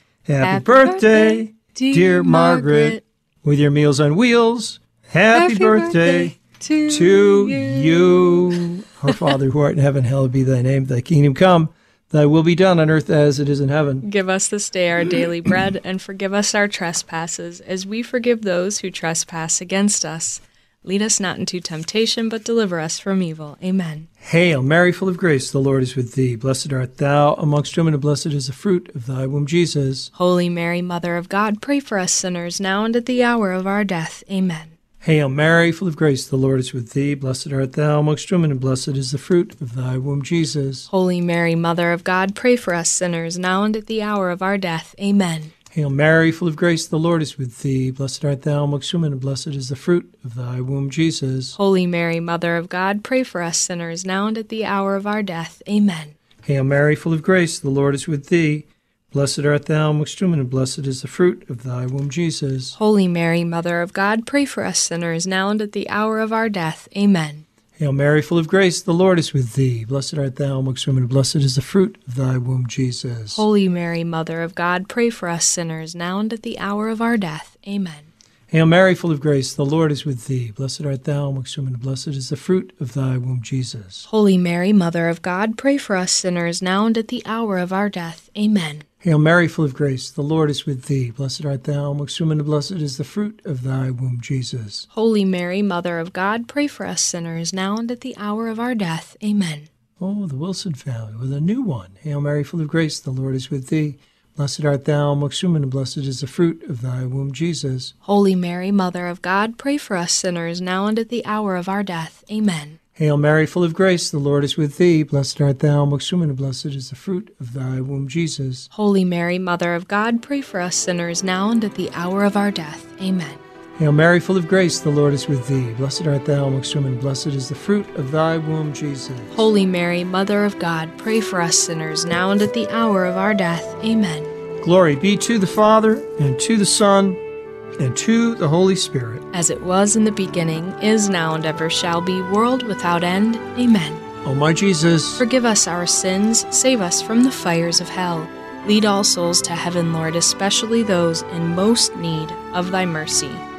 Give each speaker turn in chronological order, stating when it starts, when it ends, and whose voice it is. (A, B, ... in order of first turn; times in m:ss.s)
0:00.3-0:06.4 A
0:00.4-0:03.0 B
0:05.3-0:09.3 B
0:06.9-0:14.1 A
0:14.0-0:24.1 B
0:24.2-0:30.1 A
0:30.1-0:34.7 B
0:35.0-0:40.9 A
0:40.9-0:45.5 B
0:45.7-0:51.6 A
0:51.6-0:56.2 B
0:56.4-1:02.8 A
1:02.8-1:07.4 B
1:07.8-1:13.4 A
1:13.3-1:18.1 B
1:18.5-1:24.0 A
1:24.1-1:28.8 B
1:29.0-1:34.9 A
1:34.9-1:39.7 B
1:40.0-1:47.9 A
1:48.0-1:52.8 B
1:53.0-1:58.7 A
1:58.7-2:03.4 B
2:03.8-2:09.5 A
2:09.3-2:14.3 B
2:14.6-2:17.2 A
2:17.8-2:19.2 A
2:19.3-2:24.0 B
2:24.2-2:25.2 A
2:25.2-2:33.4 B